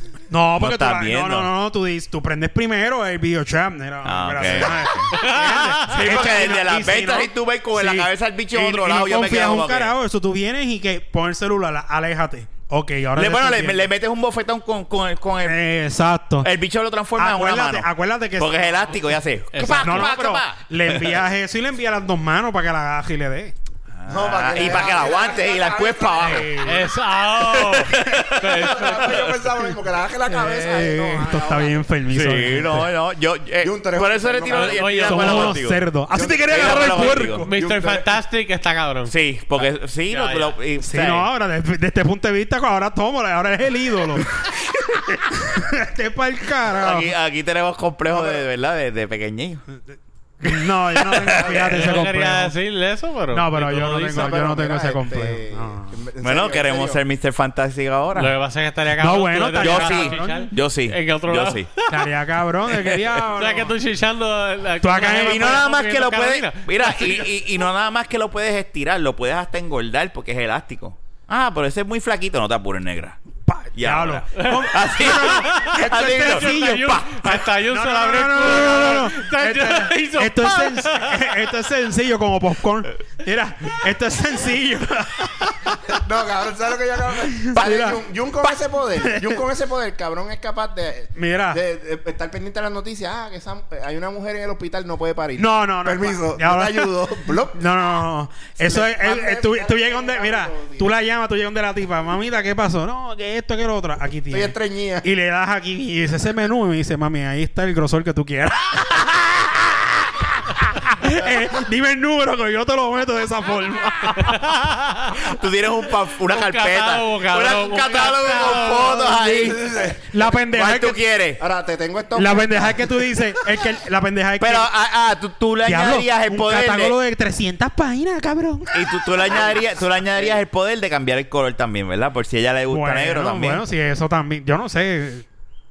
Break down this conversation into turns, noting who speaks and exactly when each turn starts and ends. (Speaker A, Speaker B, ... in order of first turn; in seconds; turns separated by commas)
Speaker A: 0.3-13.9, Speaker B: 0.6-1.5, Speaker B: 4.0-5.1, Speaker C: 5.1-6.1, Speaker B: 5.8-9.9, Speaker B: 13.1-15.6, Speaker A: 15.4-16.5, Speaker B: 16.4-21.1, Speaker A: 17.1-18.8, Speaker C: 19.5-20.1, Speaker A: 19.8-23.5, Speaker B: 23.9-26.5, Speaker D: 24.1-26.6, Speaker A: 26.2-26.9, Speaker C: 26.6-29.3, Speaker B: 27.4-29.3, Speaker D: 28.4-31.9, Speaker A: 30.3-32.9, Speaker B: 32.1-35.8, Speaker D: 33.6-35.4, Speaker C: 34.5-35.6, Speaker A: 35.1-37.5, Speaker D: 36.1-38.1, Speaker B: 36.5-37.4, Speaker C: 37.4-39.1, Speaker B: 39.0-41.3, Speaker C: 40.1-40.5, Speaker A: 40.8-44.3, Speaker A: 45.3-47.1, Speaker B: 46.7-49.6, Speaker D: 48.1-48.4, Speaker A: 50.4-52.5, Speaker B: 50.4-51.6, Speaker D: 51.3-52.0, Speaker C: 51.5-54.4, Speaker A: 53.3-55.9, Speaker D: 54.1-57.0, Speaker B: 56.2-58.3, Speaker C: 58.1-62.1, Speaker A: 59.0-60.4, Speaker B: 59.6-61.7, Speaker A: 61.9-63.7, Speaker C: 63.3-67.3, Speaker A: 64.8-65.6, Speaker B: 65.0-73.2, Speaker A: 73.5-77.1, Speaker B: 73.7-77.3, Speaker C: 74.4-81.5, Speaker A: 77.7-86.0, Speaker D: 85.9-97.6, Speaker A: 87.2-88.5, Speaker A: 89.0-89.3, Speaker A: 91.1-91.6, Speaker A: 95.4-96.9, Speaker A: 97.5-114.5, Speaker D: 98.6-100.9, Speaker D: 104.3-105.1, Speaker C: 114.2-115.1, Speaker B: 115.1-119.8, Speaker C: 116.3-119.4, Speaker D: 118.7-120.0, Speaker A: 120.1-121.0, Speaker B: 120.5-121.4, Speaker D: 121.4-123.1, Speaker A: 122.2-124.7, Speaker B: 124.4-127.0, Speaker A: 125.6-128.9, Speaker B: 128.7-133.6, Speaker D: 129.2-130.4, Speaker A: 132.7-135.2